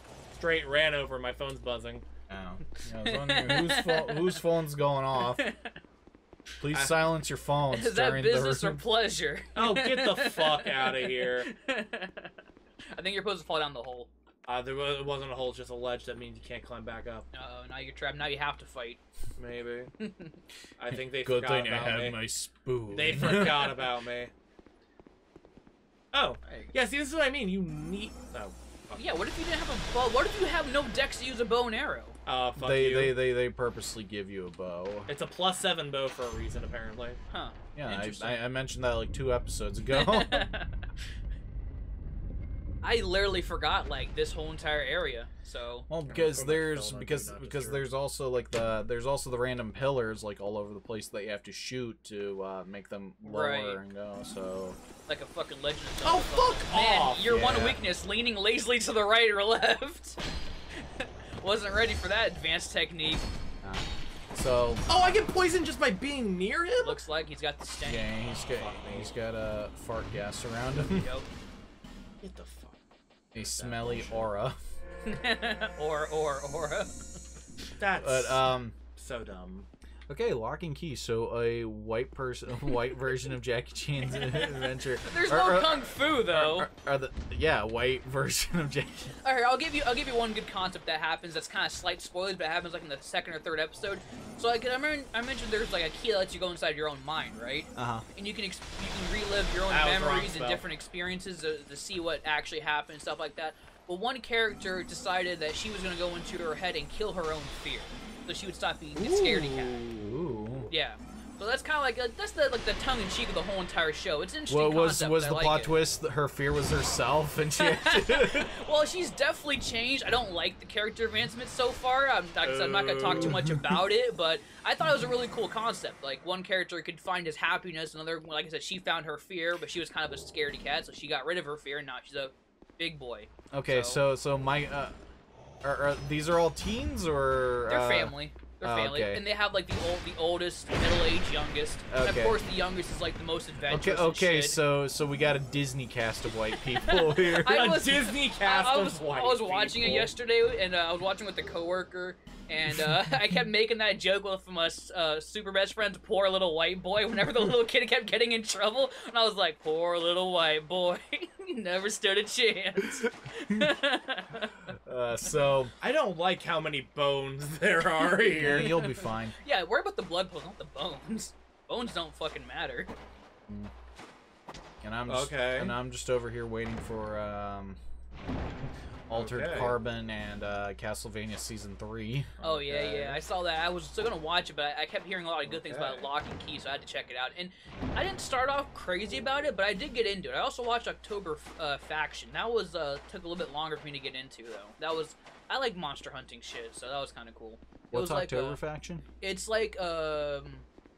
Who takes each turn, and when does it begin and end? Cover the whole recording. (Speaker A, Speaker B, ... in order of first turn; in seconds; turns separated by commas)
Speaker A: 0.3-2.1, Speaker B: 2.3-5.4, Speaker C: 2.8-4.4, Speaker C: 5.2-5.8, Speaker B: 6.6-8.8, Speaker C: 7.7-12.3, Speaker A: 9.6-11.5, Speaker C: 12.9-14.1, Speaker A: 14.5-17.3, Speaker C: 17.3-19.0, Speaker A: 19.4-19.9, Speaker C: 20.0-20.4, Speaker A: 20.8-22.2, Speaker B: 20.9-23.8, Speaker A: 22.9-24.3, Speaker A: 26.1-29.1, Speaker C: 26.4-26.7, Speaker C: 29.0-32.2, Speaker A: 32.3-33.2, Speaker B: 32.6-35.1, Speaker A: 35.1-37.2, Speaker C: 37.3-38.4, Speaker B: 37.8-40.5, Speaker C: 39.9-40.9, Speaker C: 42.8-45.9, Speaker B: 45.9-54.8, Speaker A: 46.1-47.9, Speaker C: 53.2-53.8, Speaker C: 55.1-60.2, Speaker A: 56.0-57.5, Speaker B: 57.3-57.8, Speaker C: 60.8-63.3, Speaker B: 63.6-64.9, Speaker A: 64.9-67.0, Speaker C: 66.8-68.2, Speaker B: 67.9-71.1, Speaker A: 68.5-69.1, Speaker C: 70.9-71.3, Speaker A: 72.2-72.8, Speaker A: 73.3-74.3, Speaker B: 73.3-74.6, Speaker C: 75.1-77.0, Speaker A: 77.8-79.7, Speaker B: 78.0-78.8, Speaker B: 80.1-89.2, Speaker C: 84.1-86.7, Speaker C: 89.2-109.8, Speaker B: 97.8-98.1, Speaker A: 99.7-100.7, Speaker A: 109.1-110.6, Speaker B: 110.0-110.7, Speaker C: 110.7-115.7, Speaker B: 114.5-118.5, Speaker C: 117.6-134.0, Speaker A: 122.4-123.4, Speaker B: 123.1-123.8, Speaker B: 133.5-135.0, Speaker B: 135.6-139.3, Speaker C: 137.7-144.6, Speaker B: 141.9-142.4, Speaker B: 143.7-147.7, Speaker C: 146.8-164.6, Speaker A: 147.4-150.1, Speaker B: 152.7-153.2, Speaker B: 163.5-163.7, Speaker B: 164.7-165.7, Speaker A: 165.8-168.7, Speaker C: 168.1-172.9, Speaker B: 168.2-169.3, Speaker B: 174.8-177.8, Speaker A: 175.1-175.8, Speaker B: 178.6-183.2, Speaker A: 179.1-179.8, Speaker C: 182.4-198.6, Speaker A: 185.5-186.1, Speaker B: 197.9-199.1, Speaker C: 199.2-200.7